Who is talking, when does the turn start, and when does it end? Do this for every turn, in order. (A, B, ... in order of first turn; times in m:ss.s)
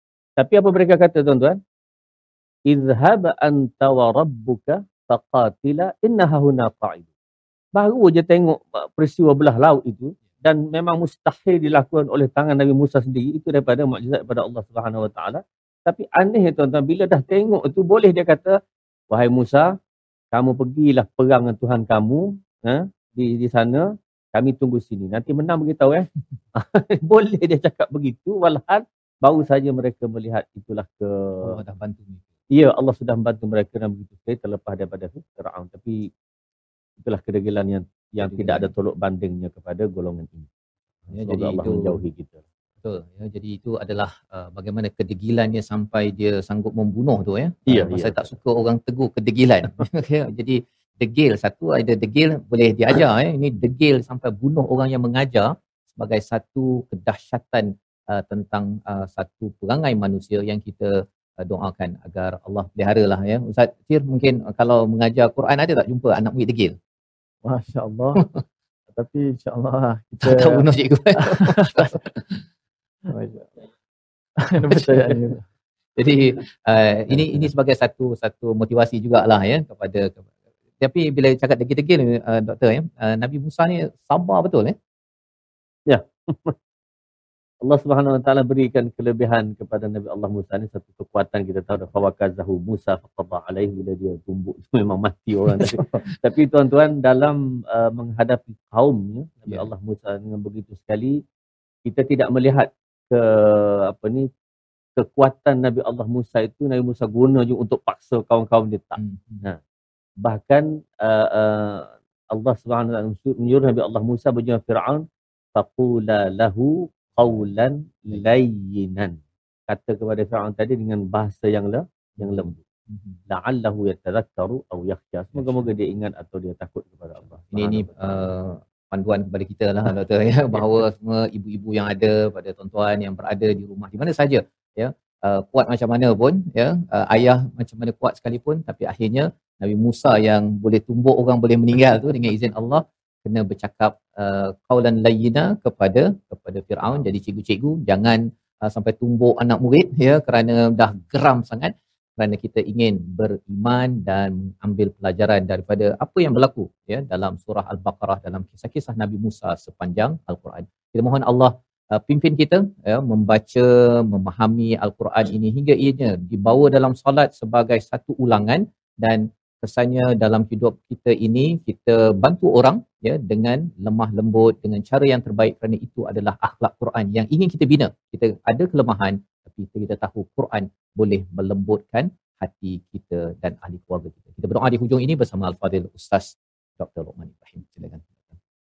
0:00.4-0:01.6 A
0:02.7-0:07.1 A
0:07.8-0:18.6 A
0:19.1-0:19.7 A
0:20.3-0:31.6 A
0:31.4-0:32.2 B
0:32.5-0:36.1 A
0:37.0-0:40.5 A
0:38.2-0:38.7 B
0:41.1-0:42.4 A
0:41.1-0:42.0 B
0:42.8-1:06.8 B
0:47.7-0:48.2 A
1:07.4-1:08.2 C
1:08.2-1:08.4 B
1:09.0-1:10.7 C
1:10.2-1:12.4 B
1:11.2-1:12.0 C
1:13.1-1:13.5 B
1:14.5-1:15.4 C
1:14.6-1:15.2 B
1:16.0-1:20.2 B
1:20.8-1:24.8 B
1:25.9-1:26.6 A
1:27.6-1:41.2 A
1:35.5-1:36.0 B
1:41.9-1:44.3 A
1:45.0-1:49.6 A
1:49.0-1:49.4 B
1:50.2-1:55.0 A
1:55.6-1:59.2 A
1:57.2-1:57.4 B
1:59.7-2:02.6 A
2:02.2-2:03.2 B
2:03.3-2:08.3 A
2:05.4-2:05.7 B
2:07.5-3:08.3 B